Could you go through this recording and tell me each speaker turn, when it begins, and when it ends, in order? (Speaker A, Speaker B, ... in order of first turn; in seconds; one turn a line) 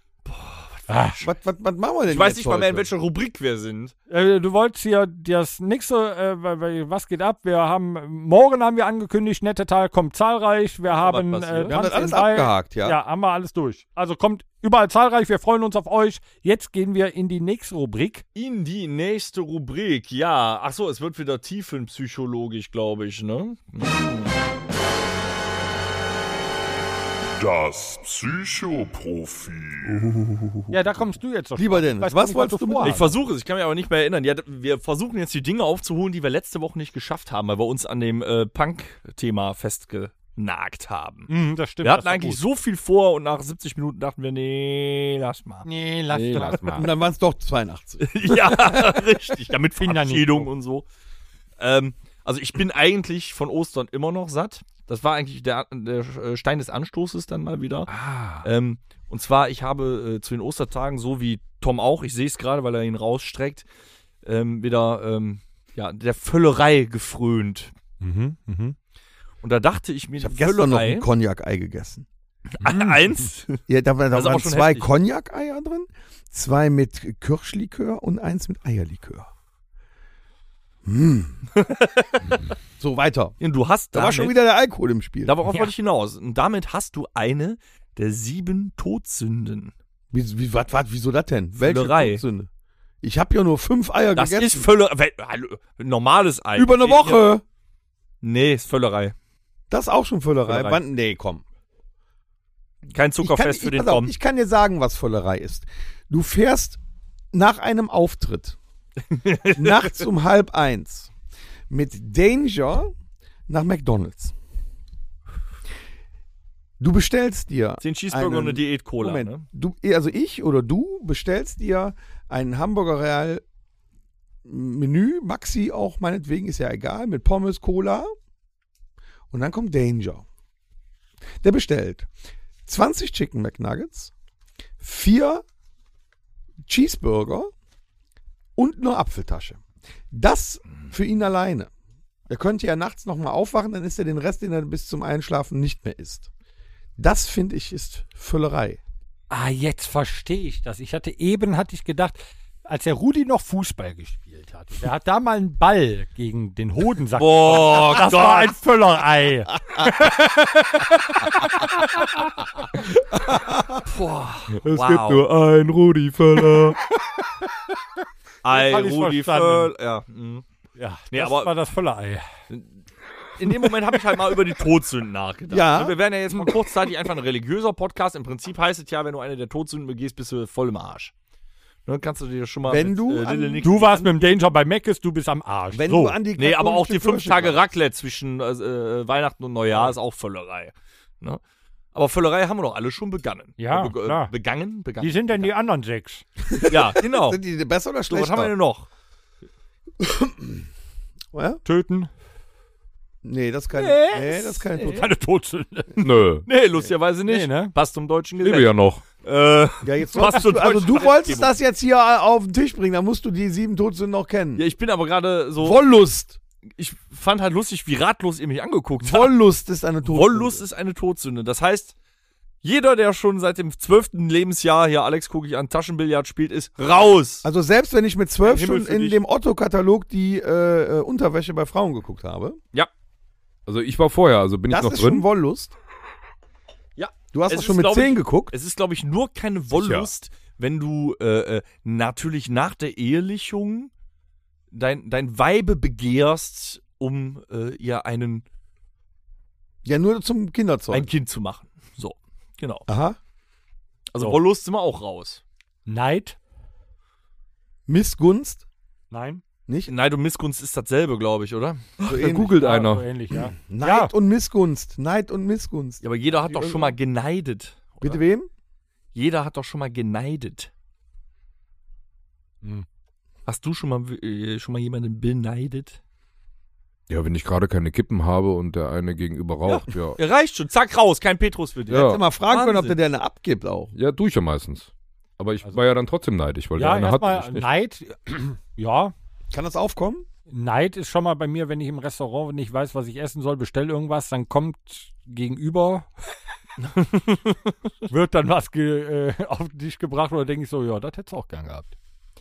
Speaker A: 0.2-1.3
Speaker B: 0.9-1.2
Speaker C: 1.2-2.9
Speaker A: 2.1-3.9
Speaker B: 4.1-18.2
Speaker A: 10.9-11.8
Speaker C: 11.7-13.0
Speaker A: 18.3-24.3
Speaker D: 27.4-30.1
Speaker C: 29.9-31.0
Speaker B: 30.7-33.1
Speaker C: 31.6-33.1
Speaker A: 32.8-41.3
Speaker B: 41.3-42.4
Speaker A: 41.8-45.7
Speaker B: 45.6-46.9
Speaker E: 46.1-46.9
Speaker C: 46.7-49.1
Speaker A: 48.0-50.8
Speaker B: 49.8-50.5
Speaker A: 51.6-63.6
Speaker E: 57.9-58.5
Speaker A: 64.2-67.7
Speaker B: 68.0-68.8
Speaker A: 69.4-71.1
Speaker C: 70.2-72.0
Speaker A: 72.6-74.9
Speaker B: 72.6-73.0
Speaker C: 73.7-79.3
Speaker C: 80.8-81.4
Speaker A: 81.5-82.1
Speaker C: 82.8-83.3
Speaker A: 83.4-84.4
Speaker C: 83.9-85.3
Speaker A: 85.2-89.7
Speaker B: 85.4-85.7
Speaker C: 90.1-92.5
Speaker A: 91.6-92.2
Speaker C: 93.0-94.7
Speaker A: 94.1-97.3
Speaker C: 96.5-97.4
Speaker A: 98.2-99.1
Speaker C: 99.7-101.4
Speaker A: 100.5-100.8
Speaker A: 102.9-104.1
Speaker C: 103.2-106.8
Speaker C: 107.3-108.6
Speaker A: 109.1-110.0
Speaker C: 109.5-111.1
Speaker C: 111.7-112.9
Speaker C: 113.5-114.3
Speaker C: 116.8-123.4
Speaker A: 117.8-119.5
Speaker C: 124.4-128.1
Speaker C: 129.3-130.2
Speaker C: 131.4-132.1
Speaker C: 132.7-134.1
Speaker C: 134.8-135.4
Speaker C: 136.7-137.5
Speaker C: 138.6-141.7
Speaker C: 142.3-146.3
Speaker C: 147.0-148.8
Speaker B: 149.3-161.7
Speaker A: 157.2-158.5
Speaker A: 163.8-165.2
Speaker E: 164.5-166.8
Speaker A: 168.4-170.4
Speaker B: 168.5-169.7
Speaker B: 170.8-172.2
Speaker A: 171.1-171.5
Speaker A: 172.5-172.8
Speaker A: 173.4-181.1
Speaker C: 175.5-176.0
Speaker A: 181.8-184.1
Speaker C: 182.7-183.6
Speaker B: 183.6-186.2
Speaker C: 185.7-187.6
Speaker A: 186.4-191.4
Speaker A: 191.9-195.5
Speaker B: 193.6-194.3
Speaker B: 195.0-196.2
Speaker C: 196.5-198.5
Speaker A: 196.7-197.4
Speaker A: 198.1-198.8
Speaker C: 200.0-200.6
Speaker C: 201.3-201.6
Speaker B: 201.6-202.1
Speaker C: 203.2-205.1
Speaker B: 203.7-205.9
Speaker E: 206.0-206.5
Speaker A: 206.4-211.5
Speaker B: 207.3-207.7
Speaker E: 208.4-209.0
Speaker C: 209.8-214.6
Speaker A: 214.6-215.8
Speaker C: 215.6-216.4
Speaker A: 216.8-219.3
Speaker C: 219.0-220.6
Speaker A: 220.0-221.9
Speaker A: 222.6-227.4
Speaker C: 227.4-232.6
Speaker A: 228.4-229.2
Speaker E: 233.7-235.2
Speaker C: 234.7-235.7
Speaker A: 237.0-243.9
Speaker C: 237.3-238.5
Speaker E: 239.7-240.1
Speaker A: 244.7-248.4
Speaker C: 249.8-251.1
Speaker A: 250.9-252.9
Speaker C: 252.9-253.2
Speaker A: 254.1-255.4
Speaker B: 255.8-256.4
Speaker C: 257.9-258.6
Speaker B: 259.1-259.4
Speaker C: 259.7-259.9
Speaker A: 259.9-261.9
Speaker E: 262.0-263.1
Speaker C: 262.0-262.6
Speaker B: 262.6-264.1
Speaker C: 263.6-266.9
Speaker A: 266.0-268.2
Speaker C: 268.0-268.5
Speaker A: 269.1-270.7
Speaker A: 273.5-276.0
Speaker E: 277.1-280.2
Speaker A: 279.7-283.0
Speaker E: 281.9-282.2
Speaker C: 281.9-283.9
Speaker E: 283.9-287.7
Speaker B: 286.8-289.1
Speaker C: 289.5-290.2
Speaker B: 290.5-296.1
Speaker A: 296.8-297.7
Speaker B: 298.1-301.9